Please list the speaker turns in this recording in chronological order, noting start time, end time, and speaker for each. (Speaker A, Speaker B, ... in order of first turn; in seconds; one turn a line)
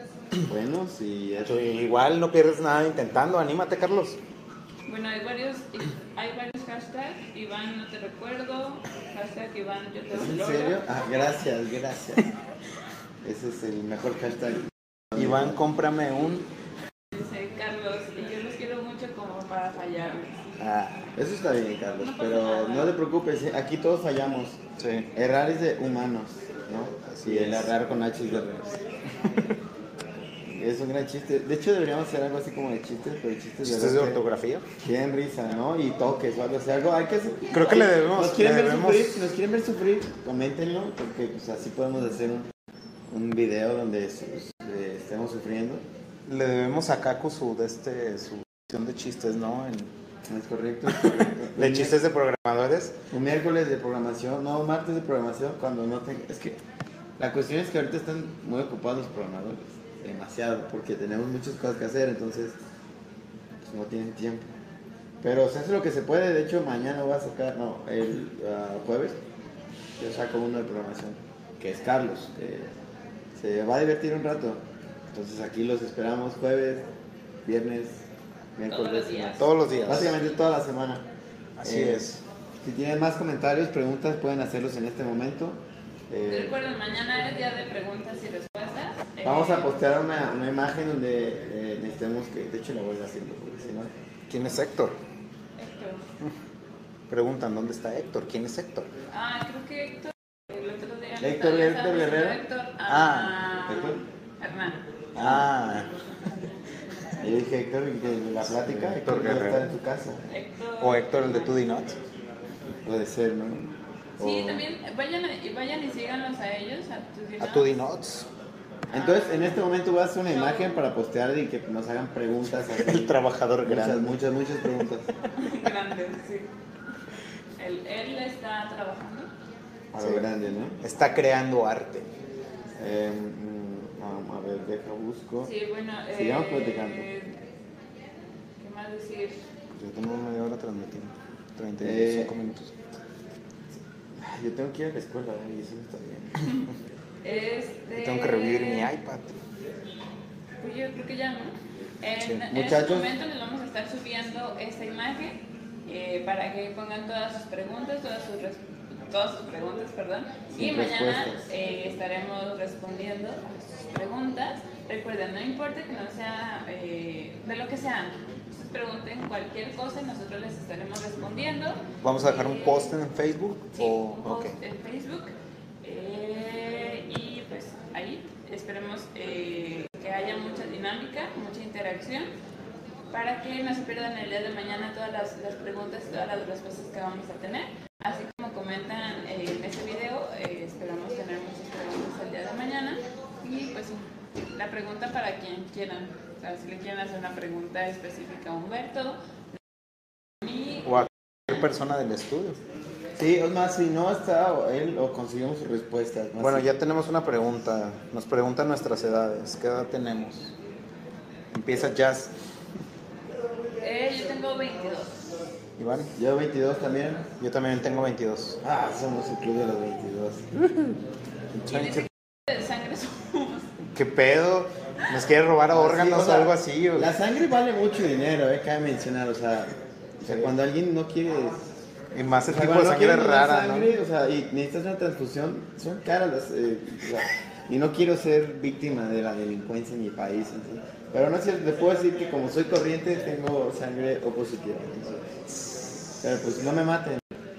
Speaker A: 0.5-1.6
Speaker B: 1.4-4.2
Speaker C: 4.9-10.8
Speaker A: 10.1-12.3
Speaker A: 13.2-15.6
Speaker B: 15.2-16.5
Speaker C: 17.1-20.4
Speaker B: 20.6-21.1
Speaker A: 21.1-24.6
Speaker C: 22.0-22.9
Speaker B: 24.8-25.1
Speaker A: 25.1-28.8
Speaker B: 27.1-27.7
Speaker B: 29.2-29.5
Speaker A: 30.4-34.2
Speaker B: 33.6-34.6
Speaker A: 34.8-42.5
Speaker B: 37.5-39.3
Speaker A: 43.1-45.8
Speaker B: 46.3-49.9
Speaker A: 50.2-52.0
Speaker B: 50.9-53.0
Speaker A: 53.1-56.6
Speaker A: 57.2-62.6
Speaker A: 63.6-64.5
Speaker A: 65.2-69.2
Speaker A: 70.0-72.7
Speaker A: 73.3-76.8
Speaker A: 77.4-81.0
Speaker C: 78.7-79.6
Speaker B: 79.3-80.2
Speaker B: 81.6-82.2
Speaker A: 81.6-82.1
Speaker A: 82.6-86.6
Speaker C: 86.3-89.7
Speaker A: 89.2-93.9
Speaker B: 94.3-95.0
Speaker C: 95.6-96.1
Speaker B: 97.1-98.9
Speaker C: 99.1-104.8
Speaker A: 101.2-102.4
Speaker B: 102.9-103.4
Speaker A: 103.7-104.0
Speaker A: 105.1-105.5
Speaker B: 105.2-105.9
Speaker A: 107.2-110.2
Speaker B: 108.4-109.8
Speaker C: 110.3-111.5
Speaker B: 110.8-112.0
Speaker A: 112.8-114.6
Speaker C: 114.2-117.7
Speaker B: 117.4-118.3
Speaker C: 118.9-119.6
Speaker A: 118.9-125.1
Speaker C: 120.3-120.8
Speaker B: 122.8-124.2
Speaker C: 125.3-126.5
Speaker C: 127.6-129.3
Speaker A: 129.9-130.8
Speaker B: 130.0-130.3
Speaker B: 130.8-132.1
Speaker A: 132.8-135.5
Speaker C: 135.4-137.4
Speaker A: 136.1-137.1
Speaker C: 138.6-139.4
Speaker B: 139.8-142.8
Speaker A: 141.8-142.4
Speaker A: 144.2-146.6
Speaker C: 147.2-148.9
Speaker B: 147.9-149.4
Speaker C: 150.6-172.9
Speaker B: 152.2-152.4
Speaker A: 152.5-153.1
Speaker A: 160.5-161.4
Speaker B: 172.0-174.6
Speaker C: 173.7-182.3
Speaker C: 183.1-194.0
Speaker C: 194.5-199.2
Speaker C: 200.4-200.8
Speaker B: 200.8-202.6
Speaker A: 203.2-206.7
Speaker B: 206.4-210.5
Speaker B: 211.5-212.3
Speaker C: 213.8-215.2
Speaker B: 215.8-216.1
Speaker A: 216.2-217.2
Speaker B: 217.4-218.6
Speaker A: 218.6-220.5
Speaker B: 221.5-222.1
Speaker C: 221.7-223.7
Speaker B: 223.9-227.1
Speaker A: 225.7-231.7
Speaker B: 230.2-230.5
Speaker B: 232.1-233.9
Speaker A: 232.4-245.3
Speaker A: 246.2-247.3